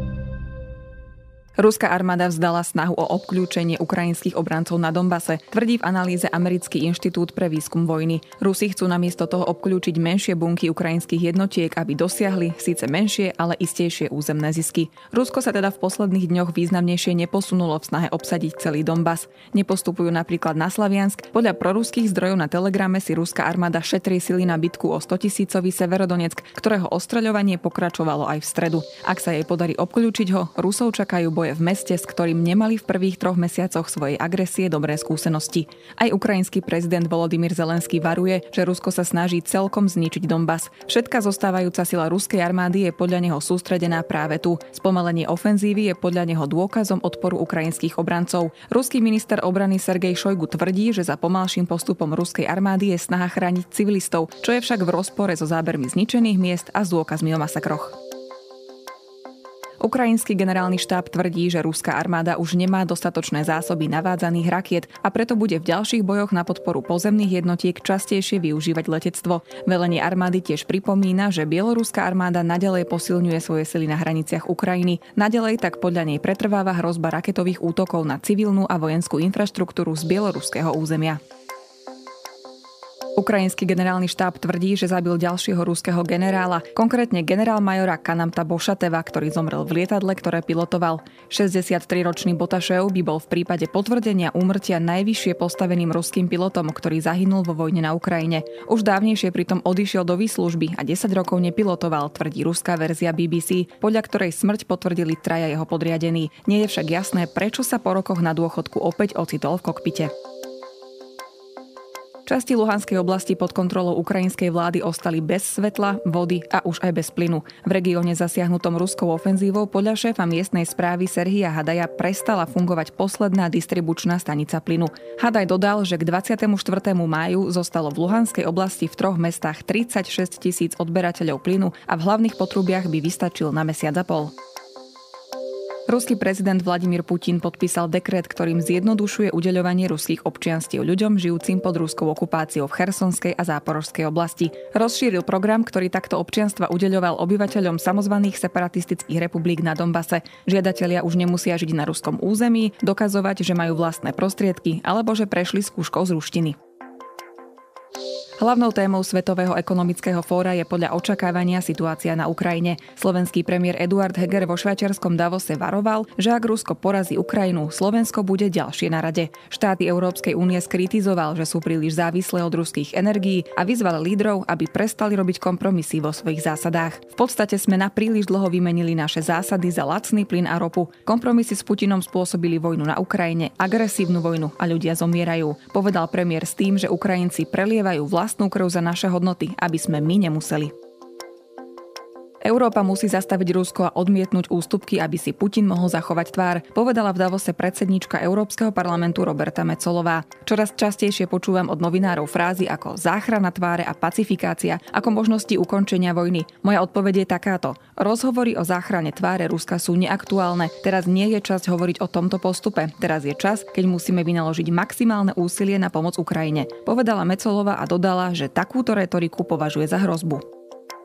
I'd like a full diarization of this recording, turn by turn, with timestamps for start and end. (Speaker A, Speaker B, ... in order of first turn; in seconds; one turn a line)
Speaker A: 1.6-58.0
Speaker A: 59.8-81.2
Speaker A: 83.2-110.1
Speaker A: 112.2-134.3
Speaker A: 135.9-156.6
Speaker A: 158.4-190.7
Speaker A: 192.4-220.4